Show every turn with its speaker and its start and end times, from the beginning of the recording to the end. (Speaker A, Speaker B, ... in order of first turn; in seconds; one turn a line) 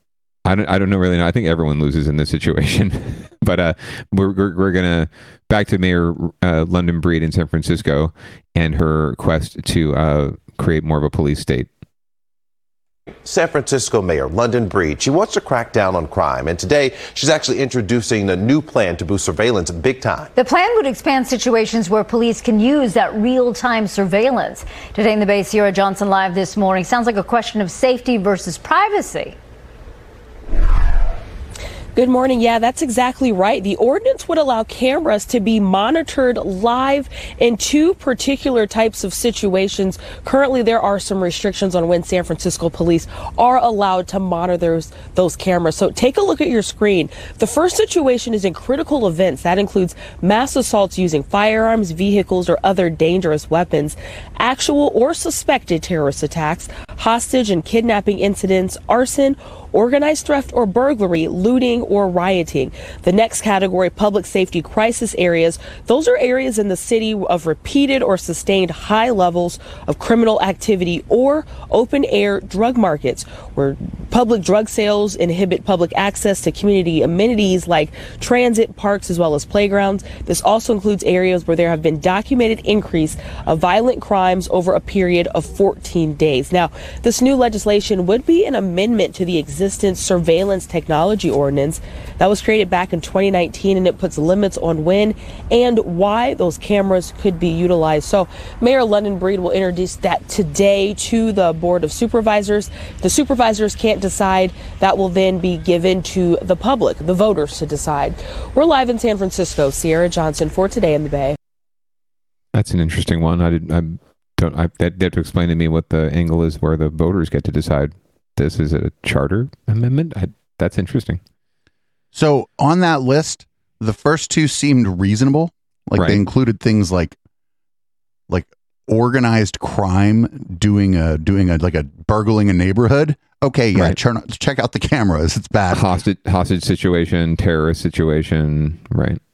Speaker A: 0.4-11.7
Speaker B: 13.2-20.3
Speaker C: 20.3-29.4
Speaker D: 31.9-111.3
Speaker A: 112.5-121.2
Speaker E: 122.1-127.2
Speaker A: 126.0-126.2
Speaker E: 128.3-135.9
Speaker A: 135.7-139.2